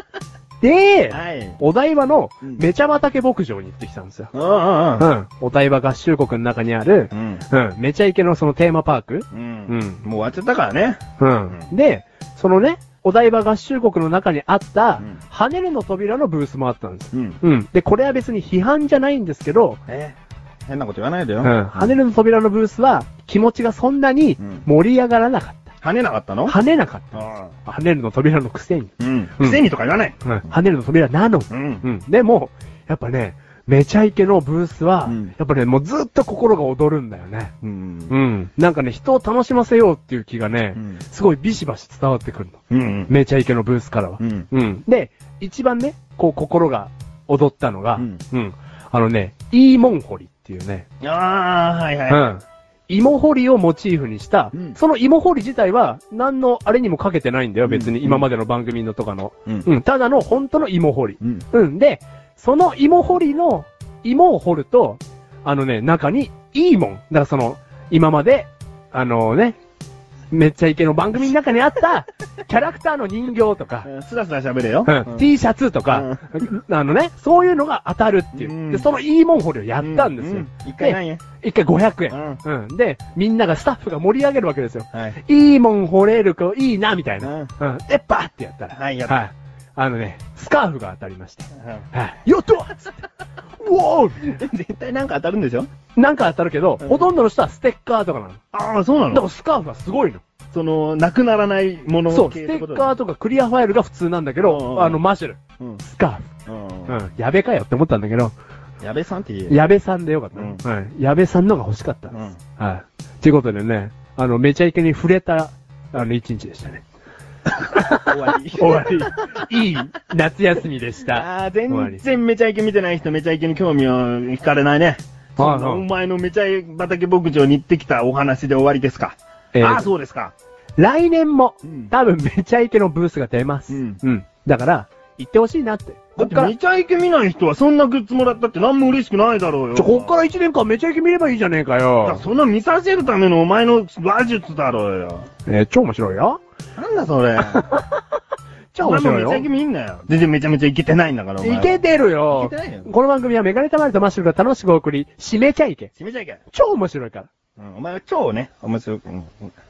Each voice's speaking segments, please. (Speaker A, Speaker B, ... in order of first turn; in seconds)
Speaker A: 0.6-4.3, 5.0-10.0, 11.2-19.8, 21.4-25.7, 26.5-29.6, 30.2-37.5, 38.1-50.9, 52.1-69.6, 70.3-73.9, 74.8-93.0, 93.6-94.4, 96.0-98.4, 99.1-100.2, 102.1-106.3, 106.9-108.3, 109.5-116.8, 117.7-122.0, 125.4-125.8, 129.5-129.9, 130.8-136.5, 139.8-142.2, 145.5-146.4, 147.5-148.0, 148.7-149.5, 151.4-155.9, 156.5-157.3
Speaker B: 1.1-1.6, 4.3-5.1, 7.1-7.4, 9.3-11.7, 17.1-17.4, 19.9-22.0, 25.8-26.6, 27.1-27.5, 29.0-30.3, 31.5-31.9, 35.1-35.3, 37.6-38.1, 40.8-41.0, 42.7-43.1, 44.2-44.5, 51.0-52.3, 57.6-58.3, 73.8-75.3, 75.9-76.3, 78.3-78.9, 79.8-81.2, 82.1-82.4, 87.2-87.5, 88.7-89.2, 91.6-91.8, 94.2-95.7, 96.8-97.1, 98.5-99.3, 100.5-102.9, 104.4-105.0, 106.5-107.0, 108.8-109.6, 110.3-110.6, 112.1-112.4, 117.9-119.5, 121.1-130.3, 131.6-131.9, 133.7-134.0, 136.2-140.2, 142.1-145.3, 146.8-147.7, 148.8-152.9, 156.0-156.4, 157.6-159.5